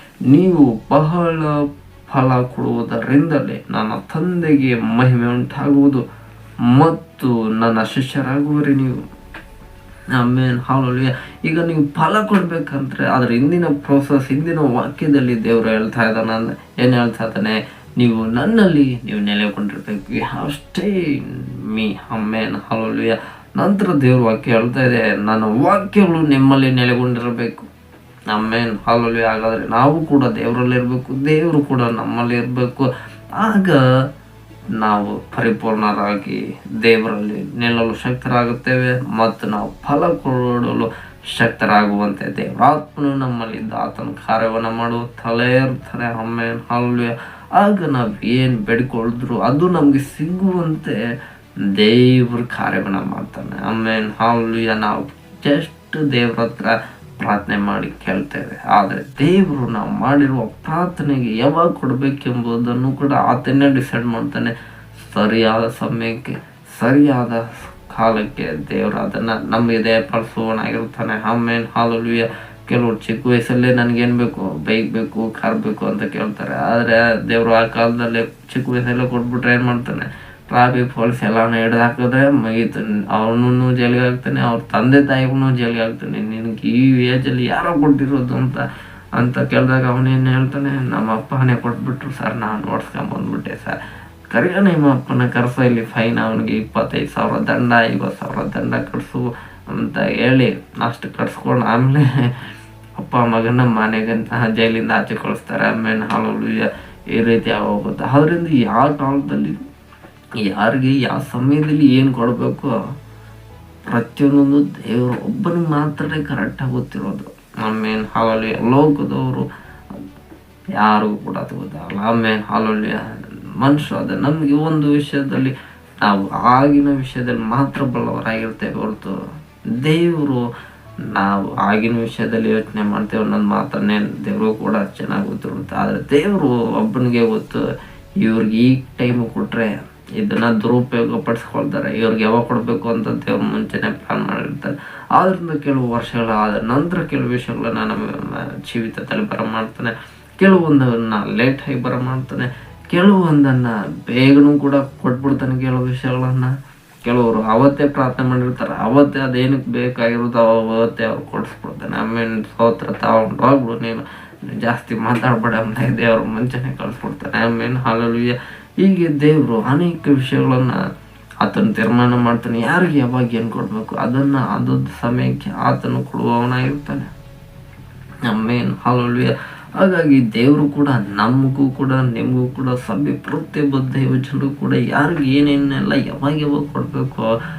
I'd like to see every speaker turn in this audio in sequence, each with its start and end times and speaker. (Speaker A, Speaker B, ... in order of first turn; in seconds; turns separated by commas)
Speaker A: 0.3-1.6, Speaker A: 2.1-6.0, Speaker A: 6.7-9.0, Speaker A: 10.2-27.7, Speaker A: 28.3-33.8, Speaker A: 34.8-51.0, Speaker A: 51.8-88.6, Speaker A: 89.2-93.8, Speaker A: 94.3-102.3, Speaker A: 103.0-109.5, Speaker A: 110.5-112.7, Speaker A: 113.9-119.5, Speaker A: 120.8-123.0, Speaker A: 123.6-129.2, Speaker A: 129.8-130.4, Speaker A: 131.1-137.7, Speaker A: 138.2-156.5, Speaker A: 157.0-170.8, Speaker A: 171.4-177.1, Speaker A: 178.3-187.3